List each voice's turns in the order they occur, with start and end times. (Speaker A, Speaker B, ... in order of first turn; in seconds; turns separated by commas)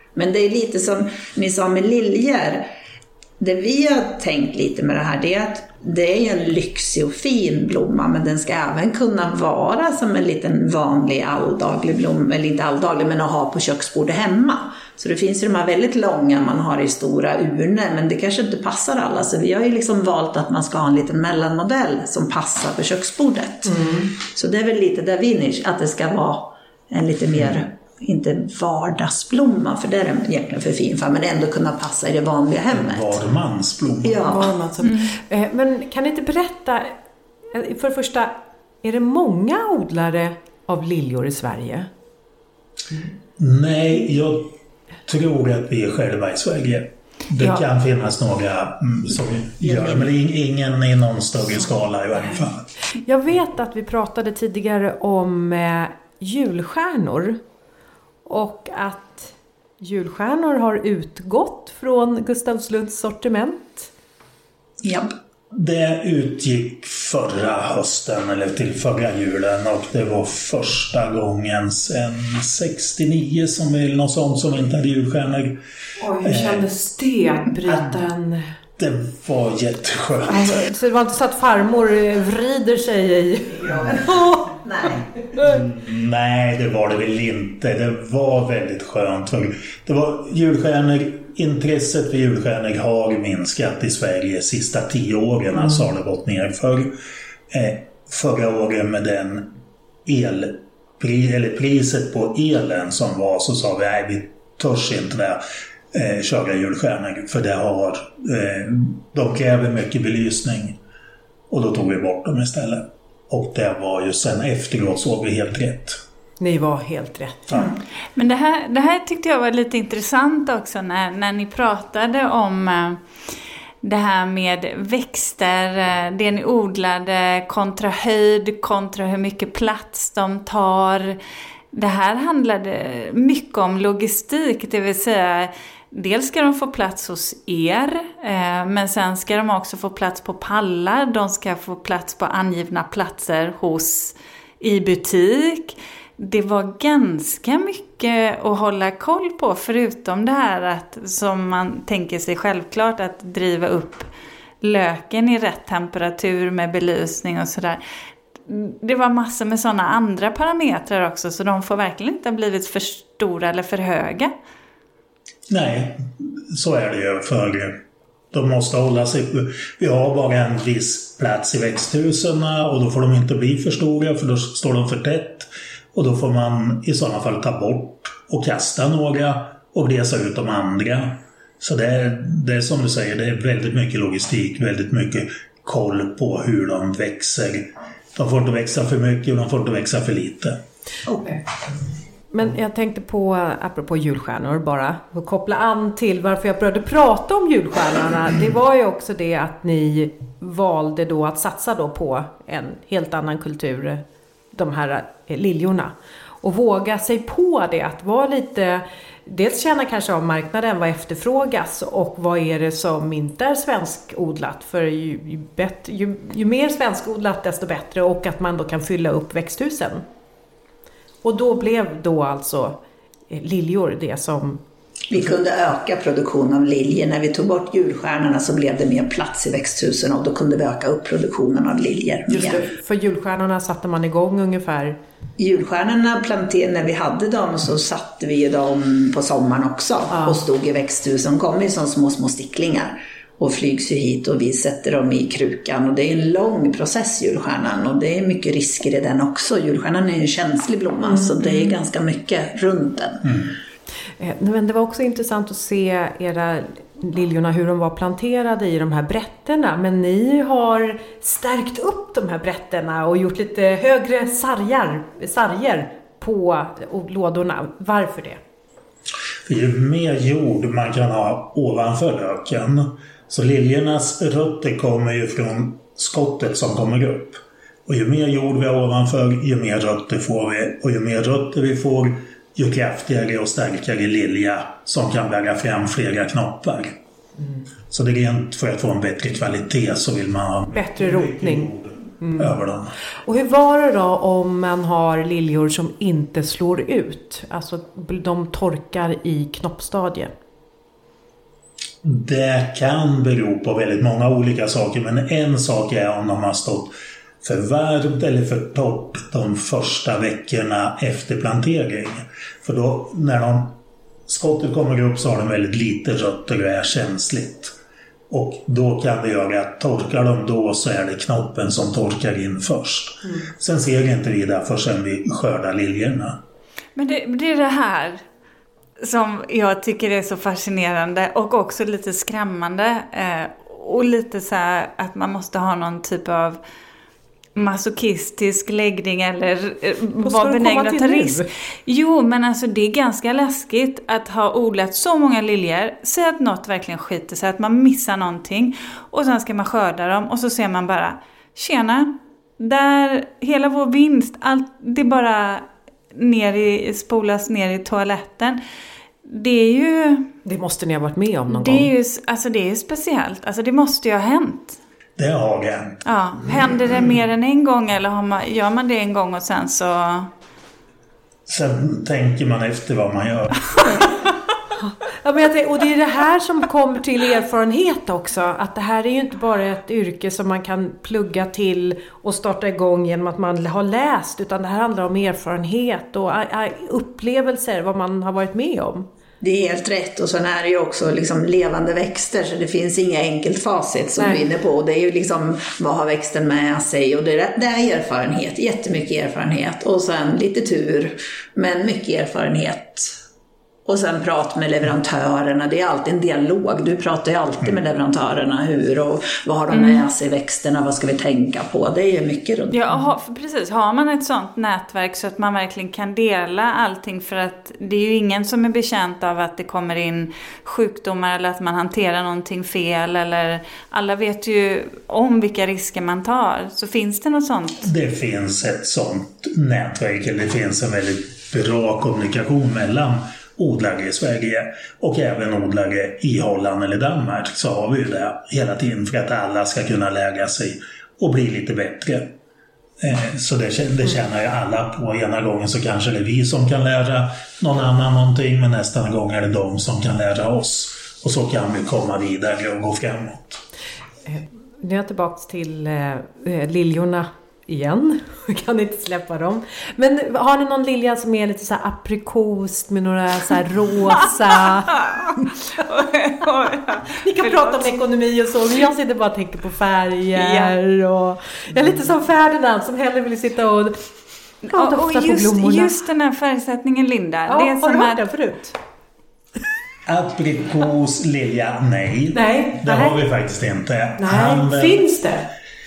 Speaker A: 0.1-2.6, Speaker A: 3.4-33.2, Speaker B: 23.6-24.1, Speaker C: 32.7-34.3, Speaker A: 34.0-34.5, Speaker B: 34.2-36.9, Speaker D: 34.8-35.1, Speaker B: 37.5-41.9, Speaker C: 43.4-44.5, Speaker C: 45.0-52.7, Speaker B: 53.0-57.4, Speaker B: 58.2-63.9, Speaker A: 64.8-65.1, Speaker C: 65.5-75.6, Speaker B: 76.0-78.5, Speaker C: 76.2-76.7, Speaker C: 77.6-78.0, Speaker C: 78.8-80.6, Speaker B: 80.2-85.6, Speaker A: 84.6-85.0, Speaker C: 85.4-96.9, Speaker C: 97.5-110.8, Speaker C: 111.5-116.0, Speaker B: 116.4-117.6, Speaker C: 117.5-117.7, Speaker D: 118.1-123.0, Speaker D: 123.8-131.2, Speaker D: 131.7-154.1, Speaker D: 154.6-157.8, Speaker D: 158.4-164.3, Speaker C: 165.5-167.8, Speaker C: 168.3-190.6, Speaker B: 191.1-191.4, Speaker B: 192.3-220.0, Speaker B: 221.2-222.8, Speaker B: 223.3-224.6, Speaker A: 225.1-232.6, Speaker B: 232.3-235.0, Speaker A: 235.4-253.3, Speaker B: 240.1-240.4, Speaker B: 251.0-251.8, Speaker B: 254.2-268.4, Speaker C: 269.4-286.9, Speaker B: 287.4-287.6, Speaker C: 287.9-292.9, Speaker B: 290.7-291.7, Speaker B: 292.2-292.5, Speaker B: 293.2-300.3, Speaker C: 302.0-317.7, Speaker C: 318.3-326.4, Speaker D: 326.9-328.2, Speaker D: 329.0-336.6, Speaker D: 337.5-358.6, Speaker B: 340.2-341.5, Speaker D: 359.2-360.3, Speaker B: 360.4-361.9, Speaker D: 361.5-364.8, Speaker C: 365.2-366.0, Speaker D: 366.0-370.3, Speaker C: 371.5-374.1, Speaker B: 374.8-389.1, Speaker A: 389.4-403.1, Speaker B: 394.2-394.4, Speaker A: 403.9-412.8, Speaker D: 409.7-410.0, Speaker D: 412.7-427.9, Speaker C: 427.8-442.3, Speaker C: 443.0-453.6, Speaker B: 454.2-465.0, Speaker D: 464.9-467.9, Speaker B: 467.2-474.0, Speaker D: 470.4-470.7, Speaker B: 474.7-475.9, Speaker D: 474.7-478.2, Speaker B: 477.5-478.8, Speaker C: 480.1-485.1, Speaker B: 482.3-483.2, Speaker B: 484.2-485.5